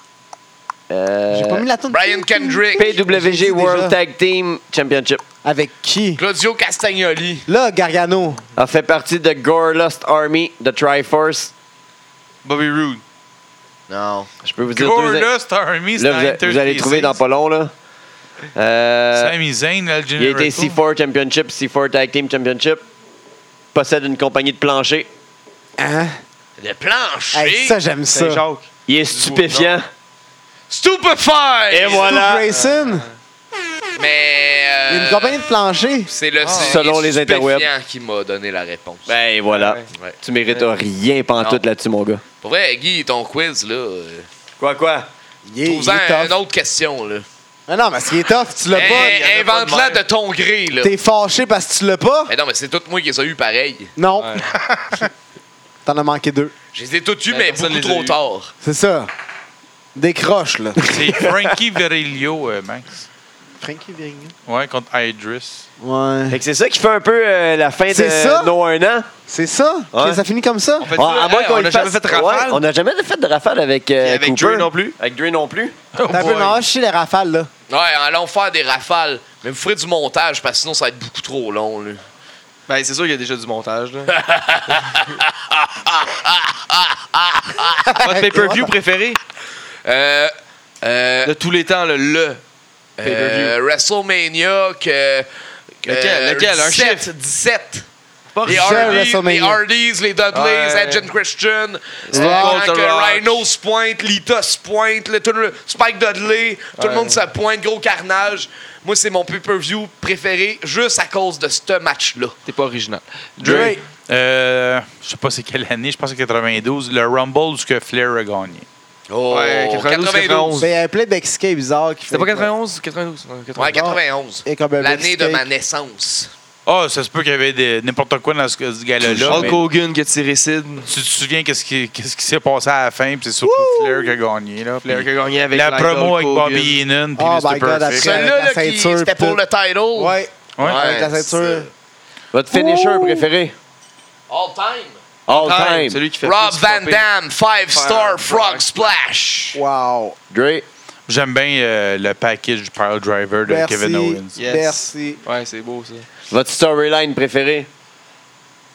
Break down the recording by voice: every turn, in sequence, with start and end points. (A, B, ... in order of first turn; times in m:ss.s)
0:00.9-0:01.6 A
0:01.3-0:04.0 B
0:01.9-0:03.0 C
0:02.8-0:05.2 A
0:05.4-0:06.2 B
0:06.2-0:07.5 C
0:07.5-0:08.4 B
0:08.5-0:11.5 A
0:12.4-0:13.0 D
0:13.9-0:14.3 C
0:14.4-0:15.3 A
0:14.7-0:17.2 E
0:16.0-0:17.7 A
0:18.5-0:19.3 A
0:19.1-0:20.8 E
0:20.2-0:22.8 A
0:23.7-0:25.1 A
0:25.8-0:26.2 B
0:26.6-0:27.8 C
0:27.3-0:28.4 B
0:28.1-0:29.7 D
0:28.9-0:29.9 A
0:30.7-0:32.2 C
0:31.7-0:32.4 A
0:31.9-0:33.1 B
0:32.5-0:33.2 D
0:34.0-0:35.4 C
0:34.9-0:36.1 B
0:36.1-0:39.1 C
0:36.4-0:36.8 D
0:36.6-0:37.7 A
0:39.1-0:42.2 A
0:39.5-0:39.9 D
0:41.4-0:41.6 C
0:42.4-0:44.3 C
0:44.6-0:45.1 A
0:45.5-0:46.4 B
0:45.6-0:47.2 C
0:47.7-0:49.1 B
0:48.7-0:50.0 D
0:48.7-0:50.9 C
0:50.8-0:52.3 B
0:52.3-0:53.9 C
0:54.0-0:54.4 B
0:54.2-0:54.5 D
0:55.8-0:56.5 B
0:56.7-0:58.5 C
0:57.3-0:58.2 D
0:58.6-0:59.1 B
0:59.9-1:01.4 B
1:00.8-1:03.1 E
1:03.6-1:04.3 B
1:04.4-1:05.6 E
1:05.8-1:06.4 B
1:06.3-1:09.1 A
1:07.9-1:08.5 B
1:09.3-1:10.9 B
1:09.9-1:10.2 A
1:10.8-1:12.6 D
1:10.9-1:15.8 A
1:14.0-1:15.0 D
1:16.0-1:16.6 E
1:16.1-1:17.5 B
1:17.7-1:22.0 C
1:22.7-1:24.1 D
1:24.1-1:27.9 C
1:27.8-1:28.7 B
1:28.0-1:29.2 D
1:29.8-1:31.3 C
1:31.2-1:32.4 D
1:33.0-1:35.3 C
1:33.0-1:33.6 D
1:35.8-1:37.8 C
1:35.8-1:37.1 D
1:38.3-1:39.1 D
1:38.4-1:52.4 C
1:38.4-1:39.6 B
1:40.3-1:41.1 D
1:42.0-1:43.5 D
1:42.1-1:42.6 B
1:46.8-1:47.2 D
1:52.4-1:53.8 D
1:53.4-1:53.8 B
1:53.5-1:58.6 E
1:59.1-2:00.6 C
1:59.3-2:00.7 D
2:00.6-2:02.5 B
2:02.1-2:03.8 D
2:03.6-2:06.3 C
2:03.6-2:05.4 B
2:06.6-2:09.6 E
2:09.2-2:10.9 D
2:10.9-2:18.2 E
2:13.4-2:14.1 B
2:14.8-2:16.8 D
2:17.2-2:19.4 B
2:17.9-2:21.7 C
2:19.9-2:21.7 B
2:20.6-2:20.9 E
2:22.3-2:23.5 A
2:22.5-2:23.3 B
2:24.3-2:25.0 C
2:25.3-2:26.0 A
2:25.3-2:27.0 D
2:26.2-2:29.6 C
2:27.7-2:28.9 D
2:29.5-2:30.2 B
2:30.3-2:30.6 A
2:31.1-2:34.4 E
2:33.4-2:35.2 B
2:34.4-2:36.1 D
2:36.3-2:37.7 A